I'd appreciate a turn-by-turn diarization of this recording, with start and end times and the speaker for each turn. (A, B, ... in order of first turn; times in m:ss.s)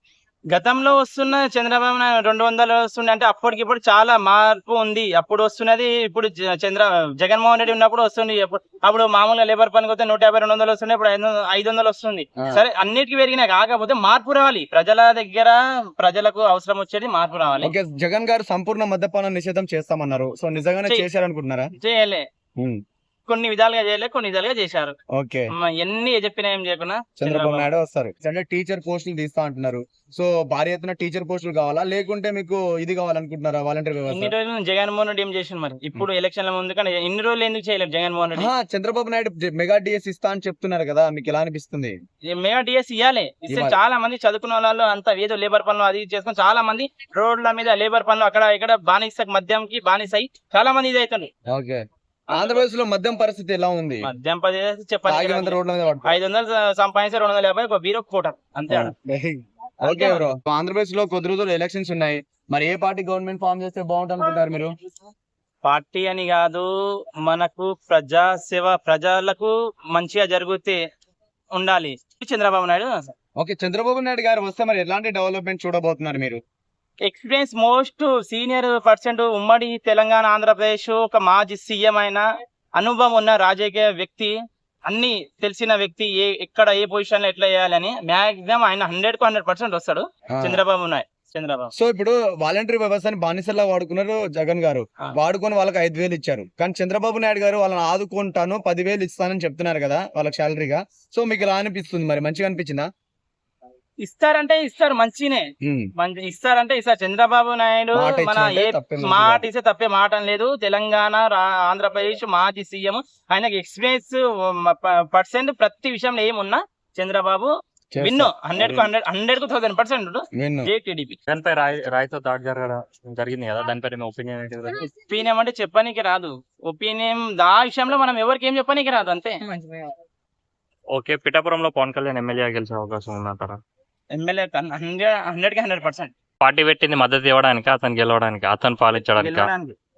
0:00.5-0:17.7 A
0:17.6-0:21.7 B
0:21.8-0:22.2 A
0:23.3-0:25.0 A
0:25.1-0:25.5 B
0:25.6-0:27.7 A
0:27.2-0:34.3 B
0:34.1-0:38.5 A
0:38.4-0:42.0 B
0:42.3-0:51.3 A
0:43.5-0:43.7 B
0:51.5-0:54.1 B
0:52.3-0:52.6 A
0:54.0-0:58.9 A
0:55.1-0:56.1 B
0:58.7-1:04.8 B
0:59.8-1:00.2 A
1:05.6-1:06.7 A
1:07.2-1:10.8 A
1:11.5-1:13.1 A
1:13.4-1:16.4 B
1:17.0-1:22.2 A
1:22.8-1:24.3 A
1:24.9-1:31.7 A
1:30.3-1:30.6 B
1:31.8-1:42.8 B
1:44.0-2:01.2 A
1:45.6-1:45.9 B
1:47.9-1:49.4 B
1:57.9-1:58.9 B
2:00.3-2:00.7 B
2:01.3-2:04.8 C
2:05.0-2:09.9 A
2:10.9-2:13.6 C
2:14.1-2:16.1 A
2:16.4-2:19.5 C
2:19.2-2:19.8 A